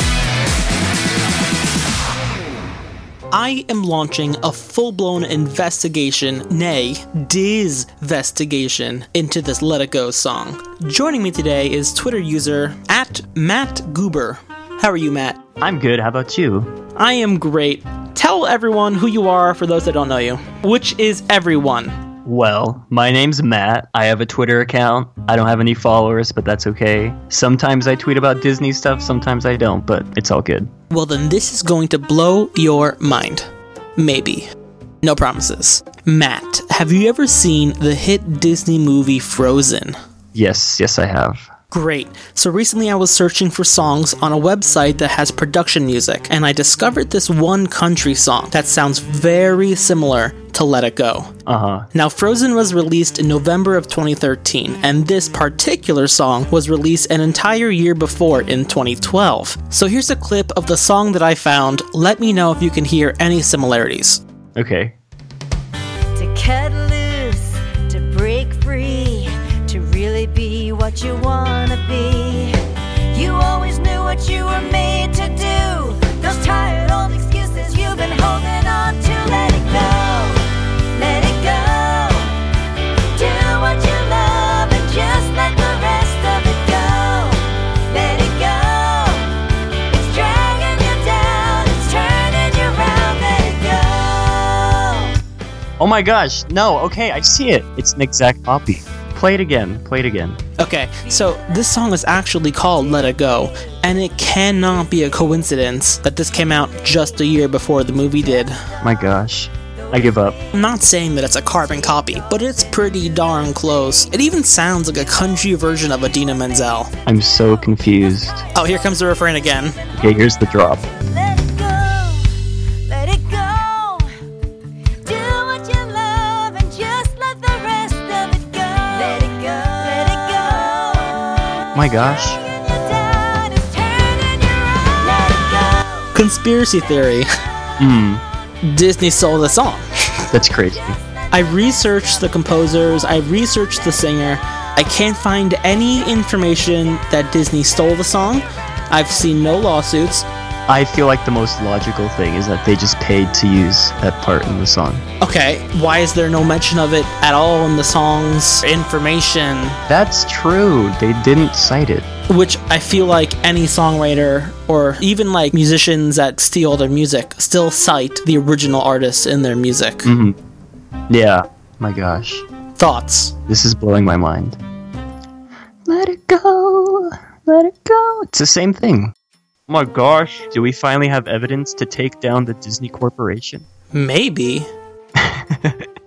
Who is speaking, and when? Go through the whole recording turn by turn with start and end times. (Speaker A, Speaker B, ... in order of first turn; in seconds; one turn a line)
Speaker A: 3.3-15.4
Speaker B: 15.6-16.7
Speaker A: 16.9-22.0
Speaker B: 22.2-30.7
Speaker A: 30.9-34.5
Speaker A: 35.0-40.0
Speaker B: 40.3-41.5
Speaker A: 41.7-51.3
Speaker B: 51.5-51.9
Speaker A: 51.9-64.2
Speaker B: 64.5-64.9
Speaker C: 66.2-72.6
Speaker C: 73.1-82.5
Speaker C: 83.1-95.1
Speaker B: 95.8-100.4
Speaker A: 100.6-108.6
Speaker B: 108.8-110.4
Speaker A: 110.5-116.9
Speaker B: 117.0-118.5
Speaker A: 118.5-119.8
Speaker B: 120.0-120.8
Speaker C: 121.0-124.2
Speaker C: 125.0-136.1
Speaker B: 131.7-132.4
Speaker A: 136.1-137.2
Speaker B: 137.8-138.2
Speaker A: 138.6-140.2
Speaker B: 140.3-141.0
Speaker A: 141.3-150.3
Speaker B: 150.7-155.0
Speaker A: 155.2-159.8
Speaker B: 159.9-162.1
Speaker A: 162.3-170.1
Speaker B: 170.0-170.3
Speaker B: 171.1-172.4
Speaker A: 172.8-173.3
Speaker B: 173.5-174.6
Speaker B: 175.8-179.1
Speaker B: 179.7-183.6
Speaker A: 183.9-184.7
Speaker B: 185.2-185.8